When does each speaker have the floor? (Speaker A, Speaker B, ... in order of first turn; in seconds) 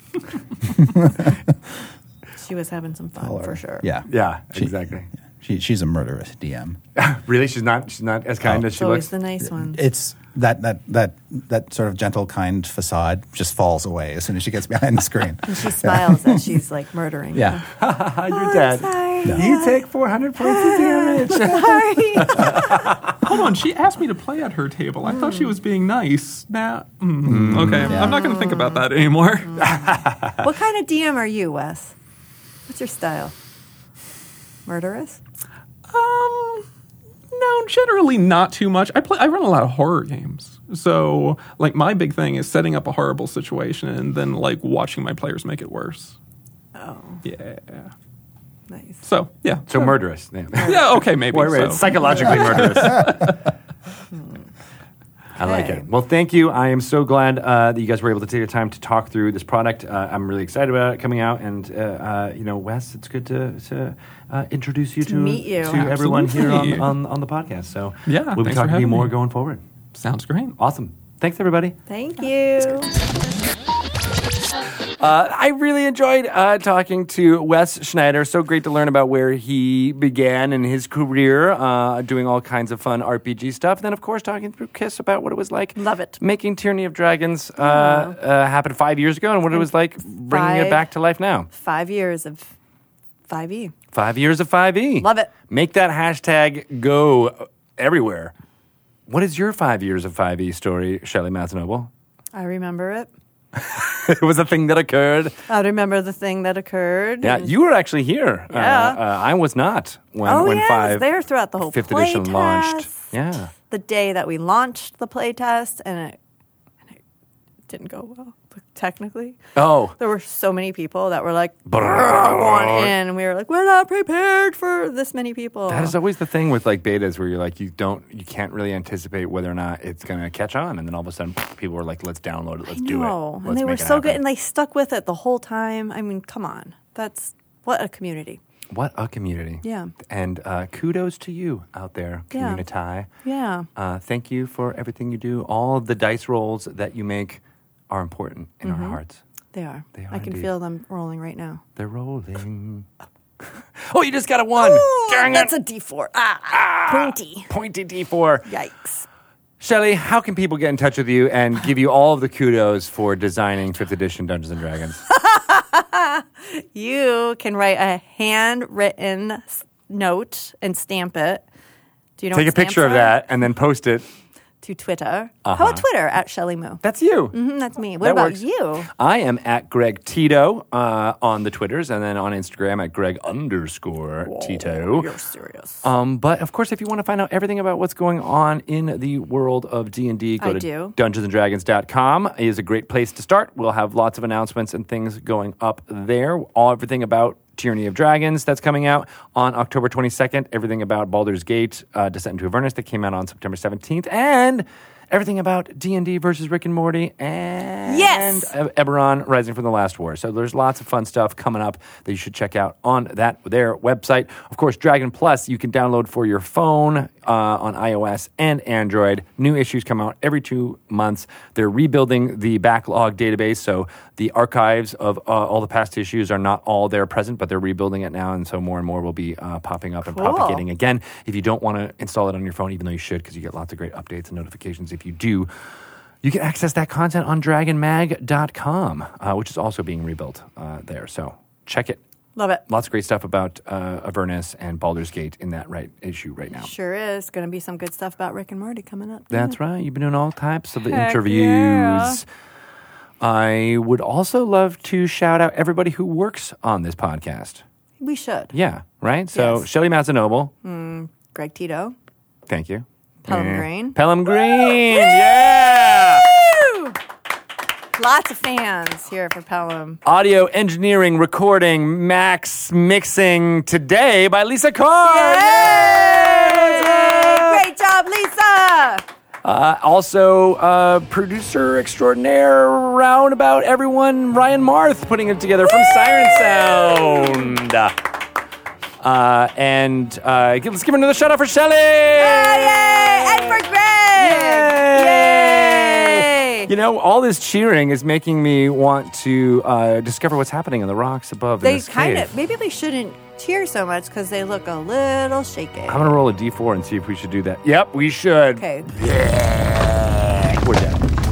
Speaker A: 0.6-1.8, 3.2-6.8, 9.4-16.5, 17.3-17.6, 27.4-28.2
Speaker B: 2.4-3.9, 8.7-9.8, 15.5-17.6, 18.3-19.8, 20.4-22.9, 25.1-25.5, 28.1-28.8, 29.5-31.9, 32.7-33.3, 34.7-35.2, 46.8-47.2, 48.7-49.0, 50.6-50.9, 54.1-54.5, 55.4-55.9, 65.0-65.9, 71.9-72.9, 85.8-86.2, 87.6-88.2, 90.3-90.9, 91.5-92.5, 93.3-93.7, 95.0-95.3, 102.3-103.1, 105.5-107.5, 108.5-109.0, 110.2-113.0, 113.6-116.2, 117.7-119.4, 120.0-126.0, 132.7-138.4, 139.6-139.9, 142.3-142.6, 143.2-143.7, 148.6-149.0, 149.5-151.6, 154.6-157.5, 158.5-159.1, 165.1-171.4, 172.2-173.2, 174.6-178.9, 184.2-185.9, 190.4-190.9, 207.9-208.5, 230.1-230.6, 242.4-242.6, 246.5-249.6, 250.8-252.2, 258.0-258.5, 259.3-259.7, 260.6-261.9, 263.2-265.4, 266.0-267.0, 268.0-270.0, 275.0-279.1, 285.7-287.5, 292.2-296.7, 301.6-306.1, 308.6-308.9
Speaker C: 4.1-5.1, 7.0-9.1, 17.7-23.2, 27.3-28.0, 29.6-30.4, 49.7-53.2, 55.4-69.6, 70.6-71.8, 75.0-91.5, 93.9-98.3, 99.1-101.9, 103.6-105.4, 107.2-111.1, 111.6-113.5, 119.6-120.0, 121.7-122.9, 125.7-134.2, 138.7-143.1, 143.8-149.2, 149.9-150.5, 151.8-152.9, 153.8-155.5, 156.5-158.5, 159.6-165.0, 172.3-174.1, 175.4-175.8, 176.8-177.4, 178.0-185.1, 185.8-235.5, 236.2-242.0, 242.7-246.7, 249.3-252.2, 253.2-257.6, 258.5-260.5, 262.5-266.3, 270.1-277.6, 279.4-288.0, 289.0-293.6, 294.1-302.3, 305.9-311.0
Speaker D: 23.2-29.8, 35.9-36.7, 37.3-46.2, 47.2-47.9, 49.0-50.0, 50.6-53.4, 65.7-66.9, 68.1-69.1, 70.0-70.6